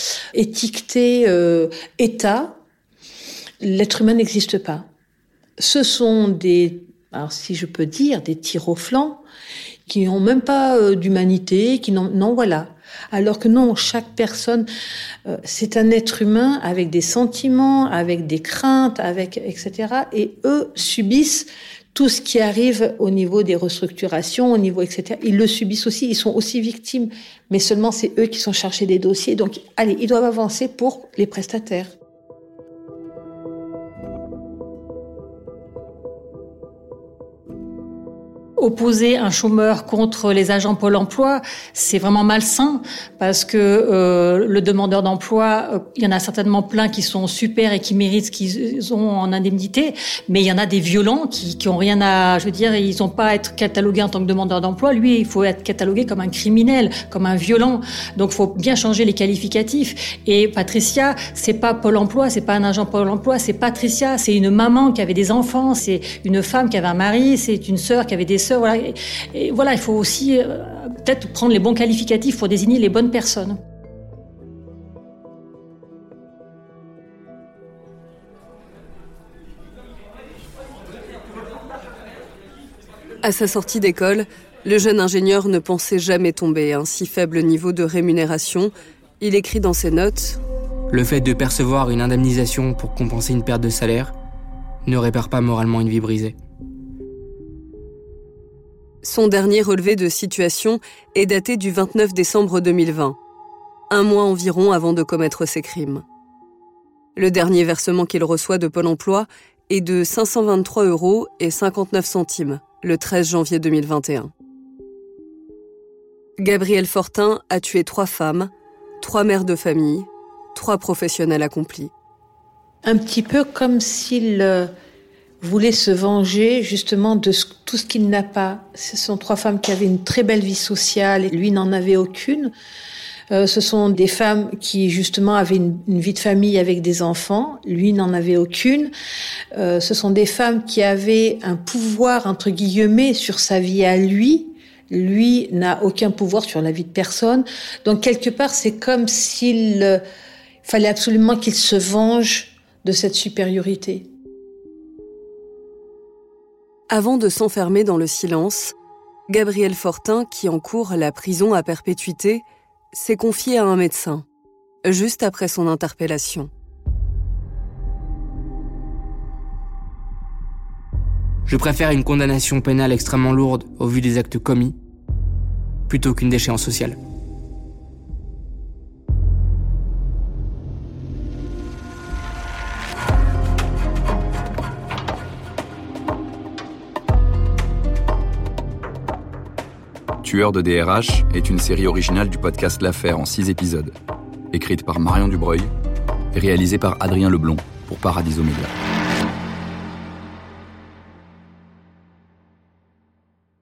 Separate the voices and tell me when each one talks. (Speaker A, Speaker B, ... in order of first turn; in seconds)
Speaker A: 0.3-2.6, 3.6-4.9, 5.6-9.2, 9.9-14.7, 15.3-31.9, 122.8-124.7, 125.4-132.5, 133.3-138.9, 139.5-150.0, 150.6-154.1
Speaker B: 38.6-73.6
Speaker C: 83.2-90.4, 99.0-103.2, 103.9-106.0, 107.2-114.3, 116.4-121.9, 156.9-158.7, 159.3-164.2, 164.8-166.5
Speaker D: 90.9-94.1, 94.8-96.4, 171.4-174.8, 175.9-177.0
Speaker E: 190.2-193.9, 194.5-195.7, 196.3-198.8